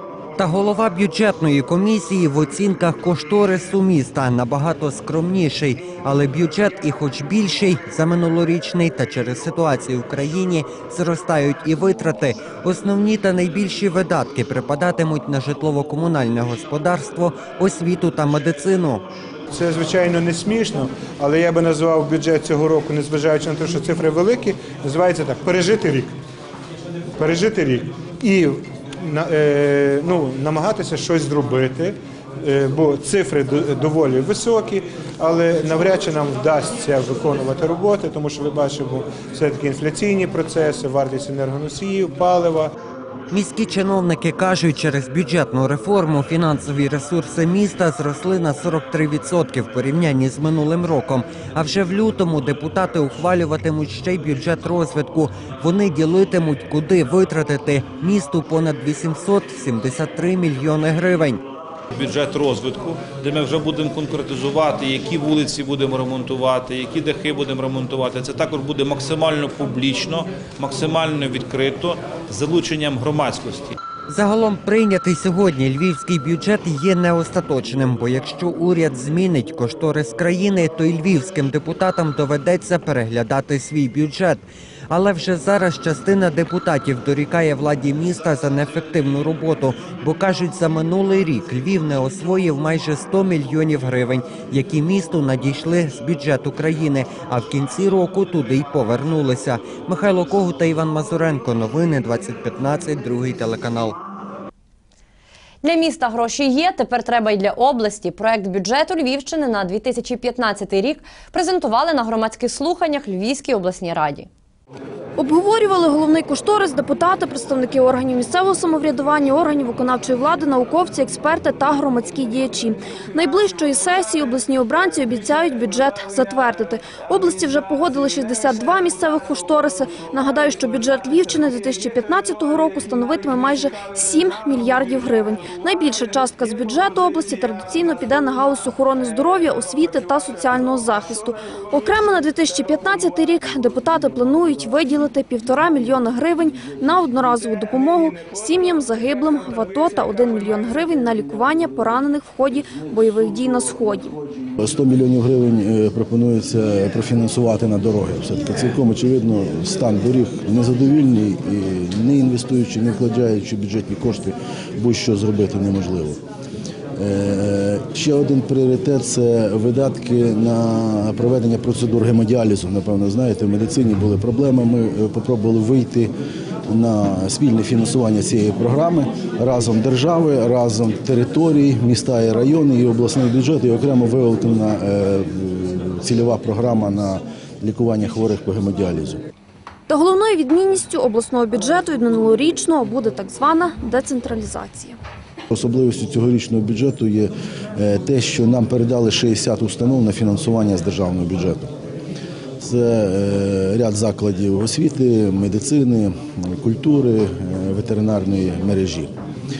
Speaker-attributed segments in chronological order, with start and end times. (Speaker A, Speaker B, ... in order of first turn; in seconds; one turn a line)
Speaker A: 0.4-19.0
Speaker B: 19.5-26.1
Speaker B: 27.2-42.7
Speaker A: 43.3-61.4
Speaker C: 61.9-73.7
Speaker A: 74.1-104.0
Speaker D: 105.6-114.3
Speaker E: 115.2-154.2
Speaker F: 154.6-166.2
Speaker F: 167.0-176.1
Speaker F: 176.7-189.2
Speaker E: 189.9-195.0
Speaker F: 195.5-201.7
Speaker F: 202.6-209.1